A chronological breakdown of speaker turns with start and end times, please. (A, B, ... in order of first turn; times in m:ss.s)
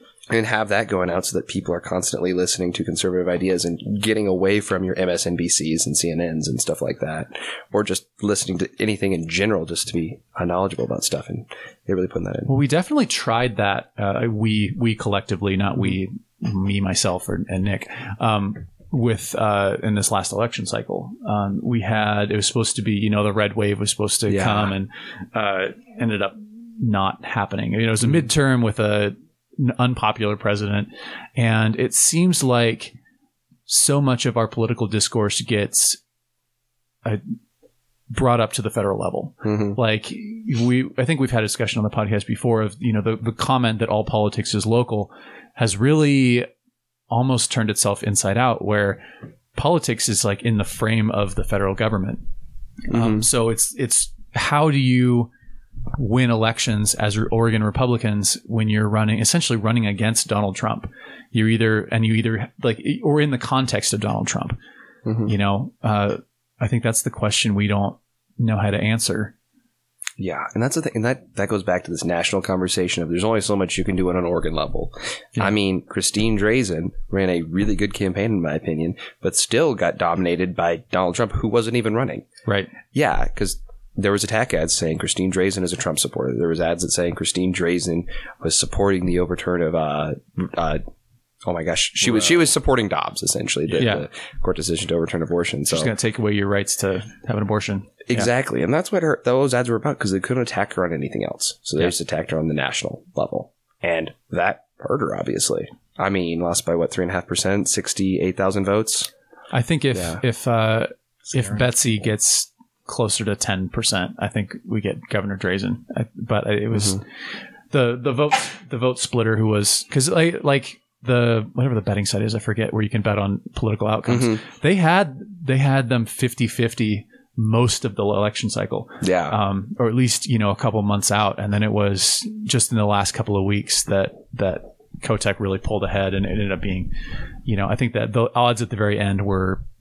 0:00.3-0:12.5 A
0:12.5-0:32.9 B
0:24.3-0:24.7 A
0:33.7-0:36.0 B
0:38.1-0:46.5 B
0:39.4-0:39.8 A
0:47.1-0:49.0 B
0:49.6-0:52.2 B
0:52.9-0:55.3 B
0:52.9-0:53.3 A
0:56.0-1:04.6 B
1:05.2-1:09.3 B
1:10.2-1:22.3 A
1:22.5-1:22.7 B
1:22.9-1:30.8 A
1:31.4-1:35.9 A
1:33.8-1:34.1 B
1:35.7-1:38.3 B
1:38.1-1:49.1 A
1:49.5-2:16.9 B
1:49.9-1:50.2 A
1:56.7-1:57.0 A
2:04.1-2:04.4 A
2:09.0-2:09.4 A
2:17.4-2:19.7 B